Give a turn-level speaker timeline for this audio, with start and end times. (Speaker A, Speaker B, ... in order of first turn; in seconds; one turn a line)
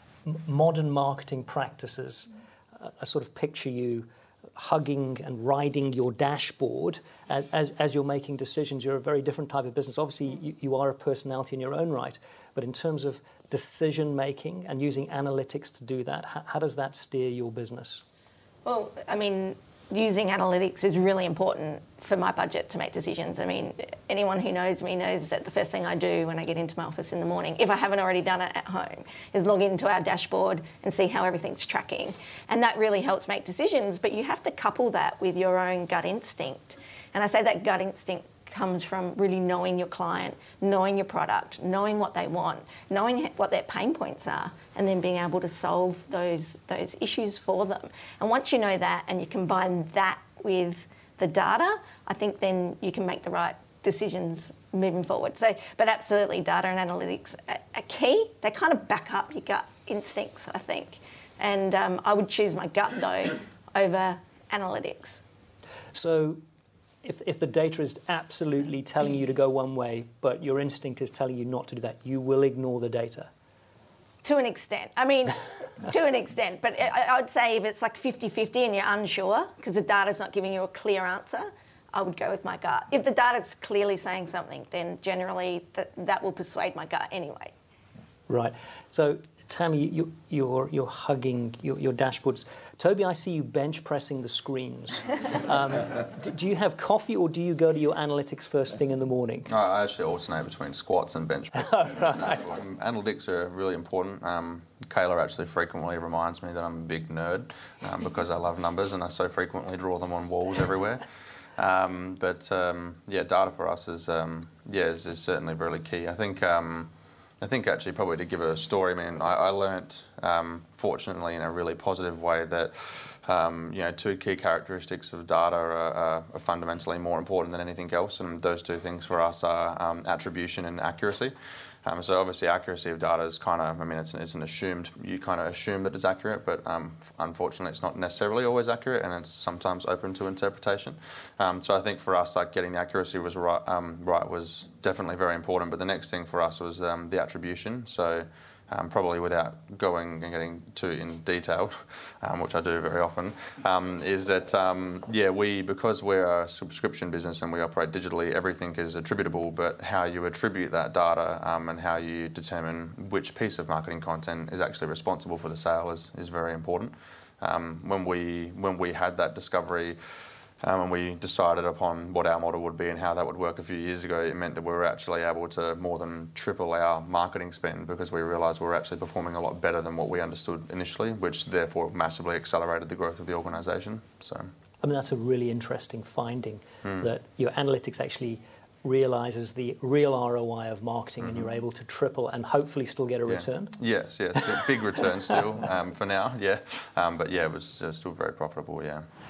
Speaker A: 0.2-18.0
Speaker B: 18.6-65.2
Speaker A: 65.9-66.4
Speaker A: 67.0-73.3
Speaker B: 74.2-87.5
Speaker A: 88.3-99.5
Speaker C: 99.5-111.0
Speaker A: 101.6-102.4
Speaker C: 111.6-131.3
Speaker C: 131.8-170.0
Speaker C: 170.6-184.5
Speaker A: 184.8-193.8
Speaker C: 193.3-199.1